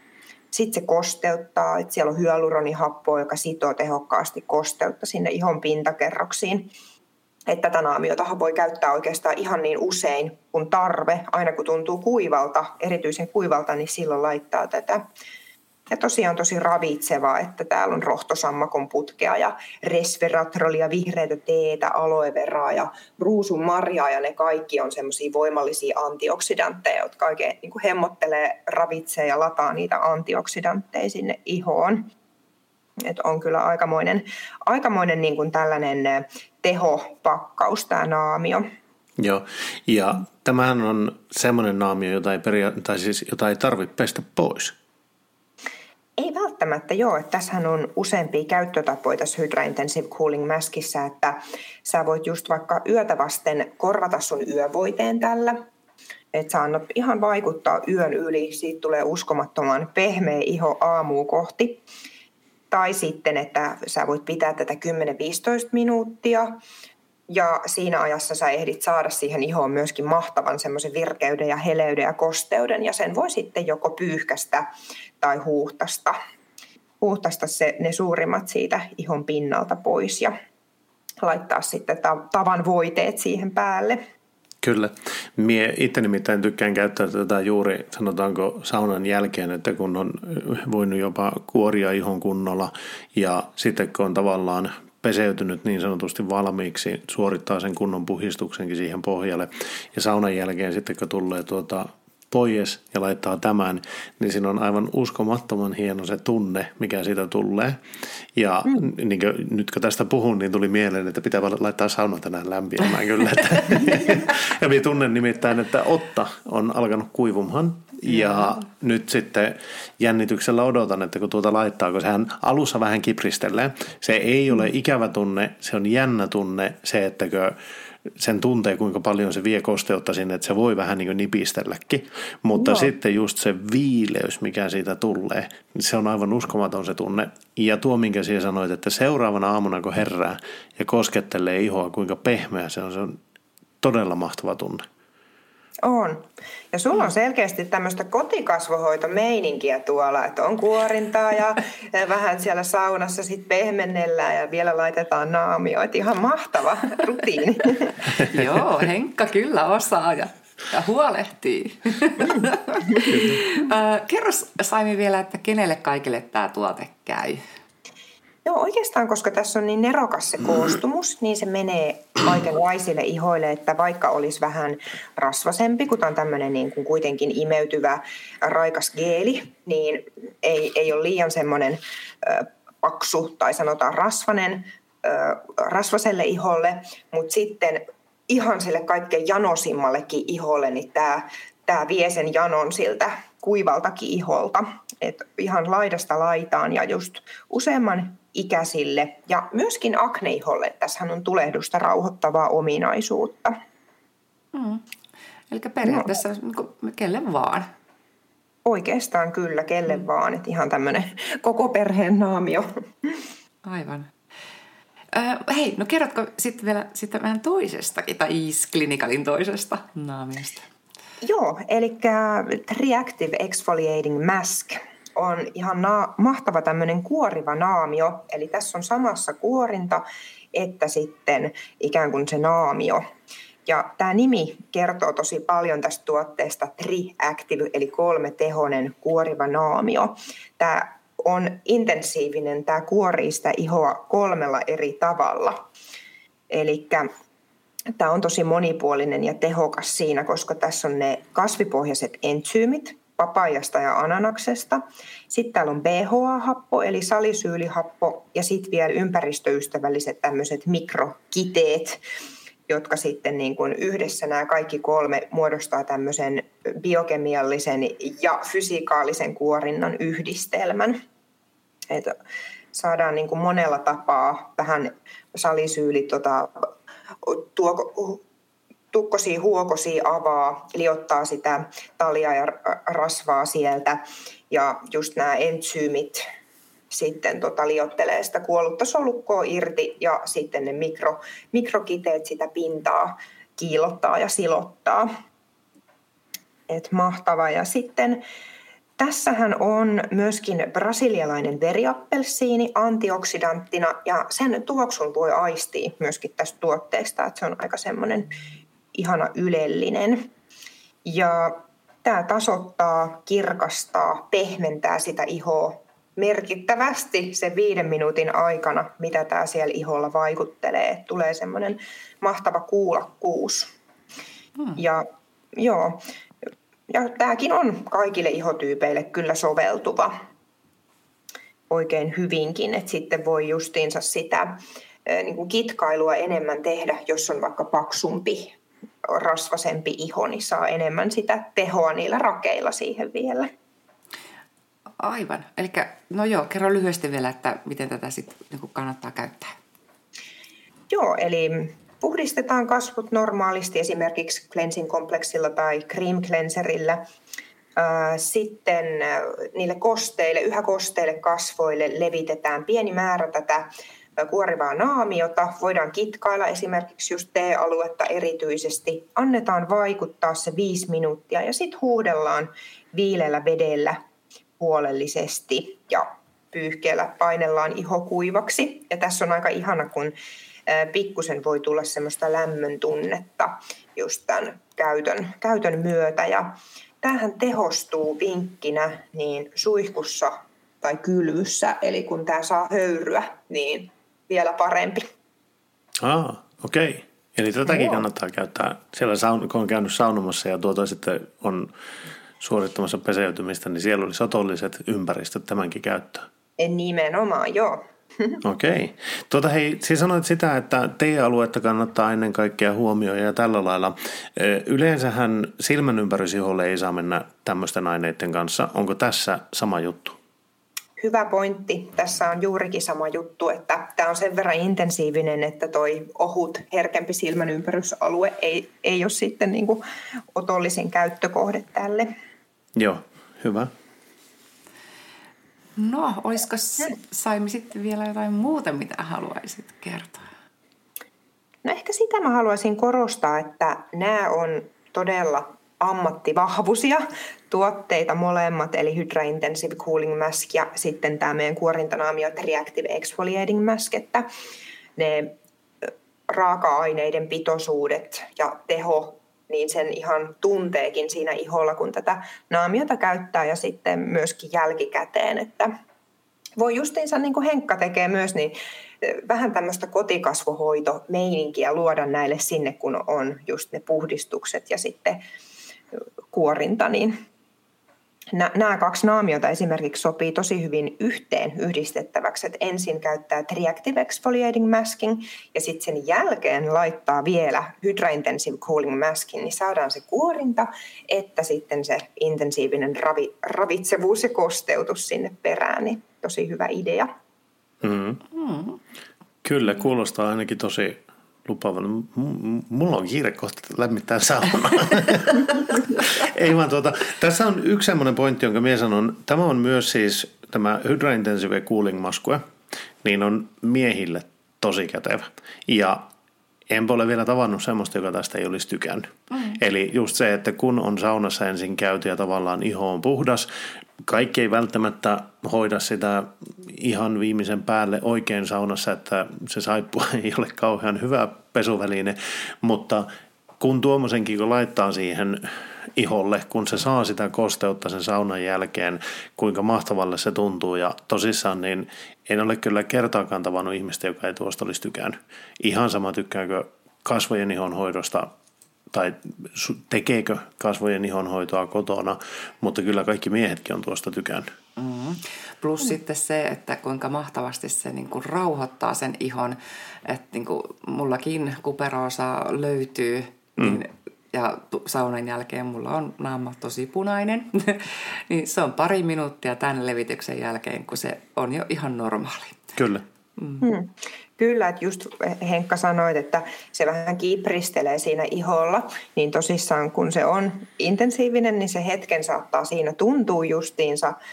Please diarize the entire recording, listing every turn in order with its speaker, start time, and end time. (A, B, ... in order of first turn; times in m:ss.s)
0:00.5-0:06.7 A
0:07.5-0:15.0 A
0:15.9-0:32.1 A
0:33.0-0:38.6 A
0:39.2-0:44.8 B
0:46.2-0:55.6 A
0:56.3-1:01.8 A
1:02.7-1:06.6 A
1:07.3-1:14.7 A
1:15.2-1:16.2 A
1:17.0-1:20.3 A
1:21.2-1:24.0 A
1:24.6-1:47.8 B
1:48.4-2:07.6 B
2:08.2-2:23.2 B
2:12.6-2:12.9 A
2:23.8-2:24.8 B
2:25.8-2:38.0 A
2:38.1-2:47.4 C
2:48.4-3:23.6 A
3:24.5-3:24.8 C
3:25.5-3:27.7 C
3:25.8-3:26.1 A
3:28.6-3:33.2 A
3:33.6-3:34.1 C
3:35.1-3:40.7 C
3:41.2-3:53.0 A
3:53.7-4:05.7 A
4:06.5-4:07.1 A
4:08.0-4:22.0 A
4:22.7-4:31.0 A
4:31.9-4:32.2 A
4:32.7-4:36.7 A
4:37.2-4:38.2 A
4:38.9-4:44.0 A
4:44.5-4:46.2 A
4:46.9-4:55.1 A
4:56.7-4:58.2 A
4:59.0-5:08.3 A
5:08.9-5:10.3 A
5:11.0-5:23.7 A
5:24.8-5:25.0 A
5:25.6-5:26.0 A
5:26.9-5:30.1 A
5:31.7-5:34.5 A
5:35.0-5:43.5 A
5:45.0-5:49.5 C
5:50.9-5:57.0 A
5:57.8-6:14.0 A
6:14.6-6:20.1 A
6:20.7-6:35.0 A
6:36.0-6:41.7 B
6:37.7-6:38.0 A
6:42.4-6:46.3 B
6:46.6-6:48.4 A
6:48.4-7:00.2 B
7:01.0-7:09.8 A
7:10.3-7:12.1 A
7:12.8-7:13.7 B
7:15.8-7:20.2 C
7:21.6-7:34.3 A
7:35.0-7:35.3 A
7:36.3-7:45.7 A
7:46.6-7:55.2 A
7:56.3-7:57.1 A
7:58.3-8:17.1 A
8:17.8-8:18.2 B
8:18.4-8:18.8 C
8:19.4-8:32.4 B
8:33.0-8:36.1 B
8:36.7-8:43.5 B
8:44.0-8:53.1 B
8:53.6-9:08.3 B
9:08.9-9:14.5 B
9:14.8-9:32.6 C
9:32.8-9:33.0 B
9:33.4-9:33.7 C
9:33.6-9:44.2 A